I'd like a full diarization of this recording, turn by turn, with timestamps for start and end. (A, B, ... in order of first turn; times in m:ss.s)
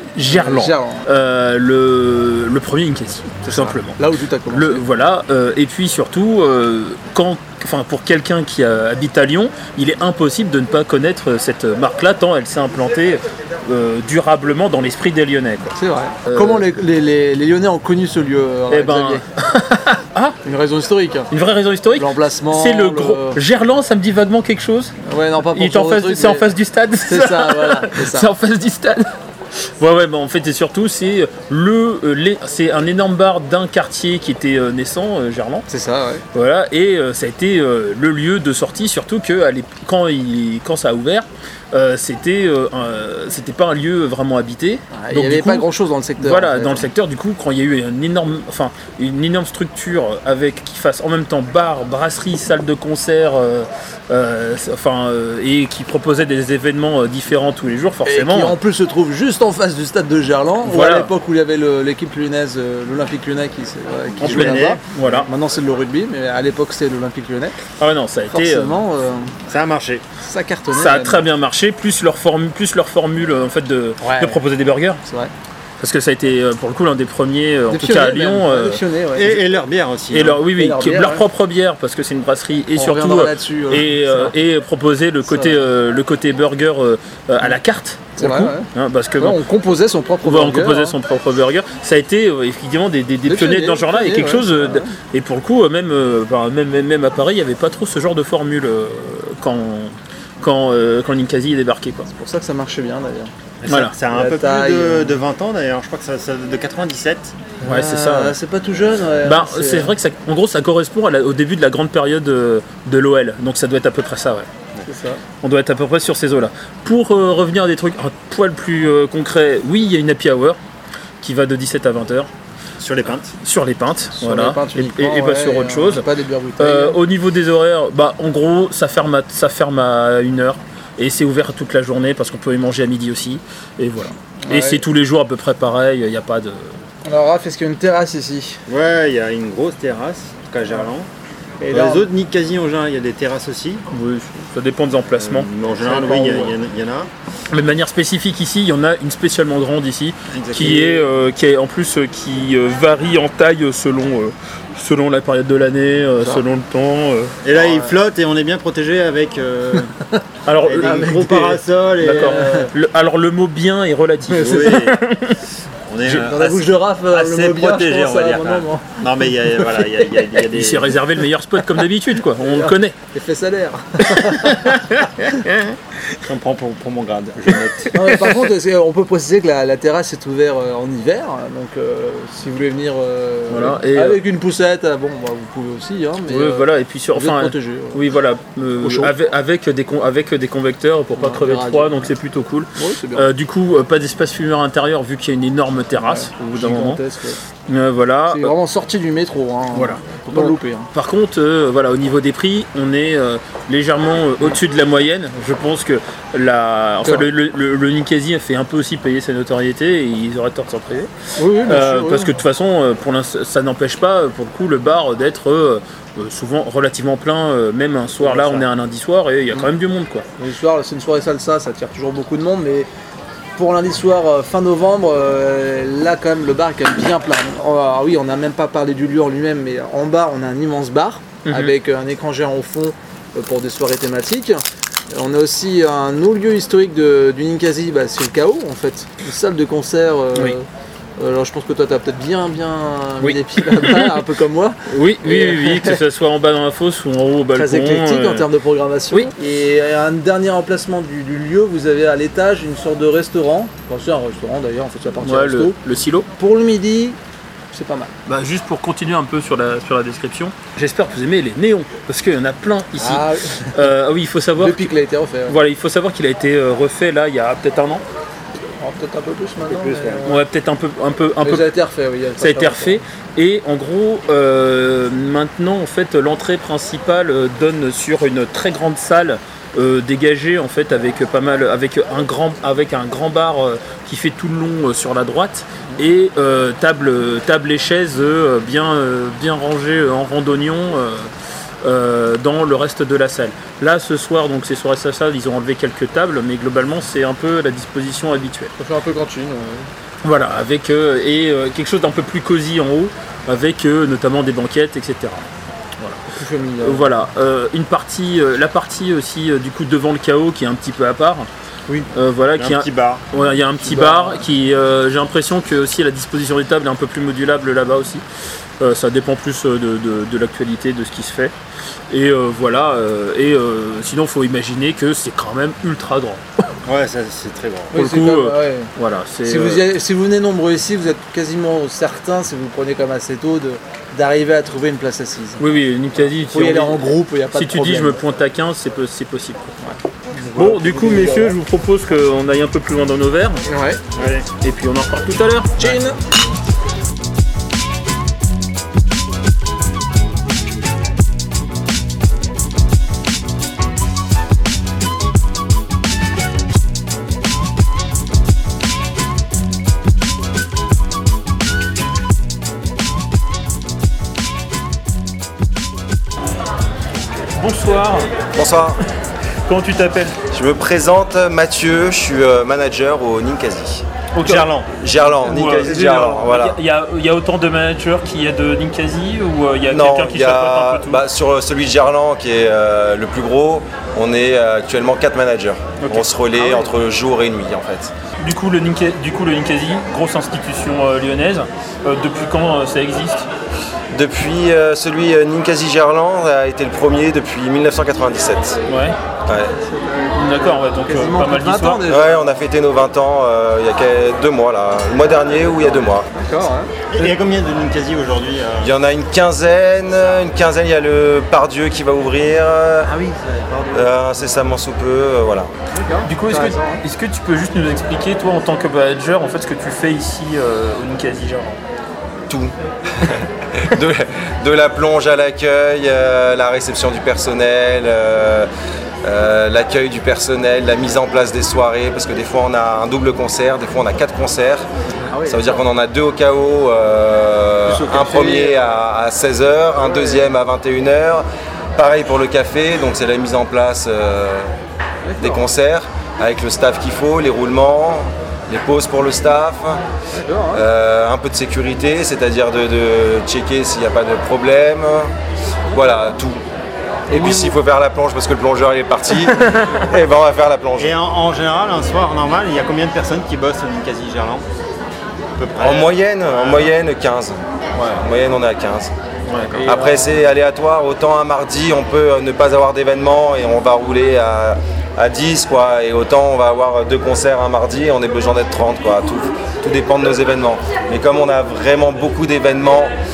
0:00.1-0:15.7 A
0:00.2-0:01.1 B
0:03.4-0:04.8 B
0:15.7-0:19.2 B
0:16.2-0:16.6 A
0:18.7-0:20.4 A
0:20.4-0:21.3 B
0:21.3-0:24.9 A
0:22.0-0:23.4 B
0:25.0-0:26.5 B
0:25.5-0:35.7 A
0:27.0-0:28.3 B
0:35.7-0:36.2 B
0:36.3-0:45.7 A
0:44.9-0:46.9 B
0:46.2-0:58.6 A
0:58.0-1:07.6 B
1:00.6-1:01.1 A
1:04.2-1:04.8 C
1:04.2-1:05.3 A
1:07.8-1:08.7 A
1:08.3-1:09.3 B
1:09.4-1:10.0 C
1:10.2-1:11.2 B
1:10.7-1:15.0 A
1:14.0-1:14.4 B
1:15.0-1:15.3 B
1:15.8-1:18.8 A
1:17.7-1:19.5 B
1:19.1-1:20.4 C
1:20.1-1:29.4 A
1:20.5-1:21.2 B
1:22.8-1:24.3 B
1:25.3-1:25.6 B
1:28.2-1:31.0 B
1:30.2-1:42.1 A
1:33.3-1:34.9 B
1:42.1-1:43.3 B
1:43.6-1:47.4 C
1:43.7-1:43.9 A
1:44.1-1:45.2 B
1:47.6-1:49.9 B
1:47.6-1:48.4 A
1:49.2-1:54.5 A
1:54.8-1:55.2 B
1:55.4-2:00.6 A
2:01.2-2:02.3 A
2:02.8-2:03.3 C
2:03.3-2:06.0 A
2:04.2-2:07.0 B
2:06.6-2:16.8 A
2:14.4-2:14.8 B
2:17.0-2:18.6 B
2:18.7-2:21.1 C
2:21.6-2:22.1 B
2:21.7-2:23.8 C
2:23.9-2:25.5 A
2:25.2-2:27.1 C
2:25.8-2:26.5 B
2:27.5-2:37.5 A
2:30.3-2:31.0 C
2:30.5-2:31.0 B
2:36.2-2:36.4 B
2:37.4-2:39.9 C
2:40.4-2:45.4 A
2:40.6-2:42.7 C
2:40.8-2:41.5 B
2:42.0-2:42.7 B
2:44.3-2:44.8 B
2:44.3-2:45.0 C
2:45.8-2:51.0 C
2:46.0-2:49.0 B
2:50.5-2:53.0 A
2:52.4-2:54.8 B
2:54.1-2:55.7 A
2:56.2-2:58.0 C
2:57.9-3:08.0 B
3:03.5-3:04.2 A
3:06.3-3:17.0 A
3:08.8-3:09.1 B
3:11.2-3:12.1 B
3:12.8-3:13.3 B
3:16.0-3:17.4 B
3:17.7-3:18.5 A
3:18.3-3:20.9 B
3:19.7-3:31.1 A
3:31.4-3:32.3 B
3:31.6-3:40.2 A
3:38.2-3:38.7 B
3:40.4-3:42.9 B
3:43.6-4:00.6 B
3:51.4-3:51.7 A
4:01.2-4:06.0 B
4:03.2-4:04.2 A
4:04.9-4:08.5 A
4:07.5-4:15.8 B
4:15.2-4:16.3 A
4:16.4-4:17.2 B
4:17.7-4:18.1 B
4:18.3-4:24.9 A
4:23.0-4:23.9 B
4:24.6-4:25.6 B
4:25.5-4:28.0 A
4:28.8-4:30.4 B
4:30.2-4:31.7 A
4:31.4-4:33.0 B
4:32.4-4:51.3 A
4:51.8-4:58.7 A
4:58.8-4:59.9 B
5:00.2-5:05.5 A
5:06.3-5:07.0 B
5:06.8-5:11.5 A
5:12.1-5:18.2 A
5:12.6-5:13.2 C
5:13.8-5:14.4 B
5:18.8-5:21.5 A
5:22.1-5:26.4 A
5:26.8-5:28.0 C
5:27.9-5:28.9 B
5:27.9-5:29.8 A
5:29.4-5:35.6 B
5:35.6-5:39.7 A
5:36.5-5:38.2 B
5:39.8-5:41.6 B
5:40.5-5:43.6 A
5:43.7-5:44.0 B
5:44.2-5:44.5 C
5:44.6-5:46.0 A
5:45.8-5:46.2 B
6:07.5-6:08.4 A
6:08.5-6:09.0 D
6:09.6-6:10.4 A
6:10.5-6:14.0 D
6:14.3-6:21.2 A
6:14.4-6:14.9 C
6:15.0-6:16.8 D
6:19.9-6:28.1 D
6:26.0-6:26.8 A
6:28.4-6:33.5 A
6:34.1-6:38.8 D
6:38.9-6:39.2 A
6:39.5-6:39.7 D
6:39.7-6:42.4 B
6:40.3-6:42.0 A
6:42.0-6:46.3 D
6:45.9-6:47.3 B
6:47.1-6:48.9 C
6:48.8-6:53.1 D
6:53.0-6:54.2 B
6:53.9-6:55.7 D
6:55.9-6:57.0 B
6:56.2-7:01.8 A
7:02.5-7:08.7 D
7:09.2-7:14.8 D
7:15.2-7:15.8 B
7:15.5-7:21.4 D
7:17.8-7:18.8 B
7:20.0-7:20.4 B
7:22.0-7:24.7 D
7:25.2-7:25.6 B
7:25.4-7:30.0 D
7:30.3-7:30.8 B
7:30.7-7:35.3 D
7:35.9-7:36.6 D
7:37.3-7:37.8 B
7:37.3-7:41.1 D
7:41.0-7:44.6 C
7:45.6-7:46.9 C
7:45.8-7:47.6 D
7:48.0-7:48.2 C
7:48.1-7:49.1 D
7:49.5-7:49.8 A
7:49.7-7:50.4 B
7:49.8-8:03.1 D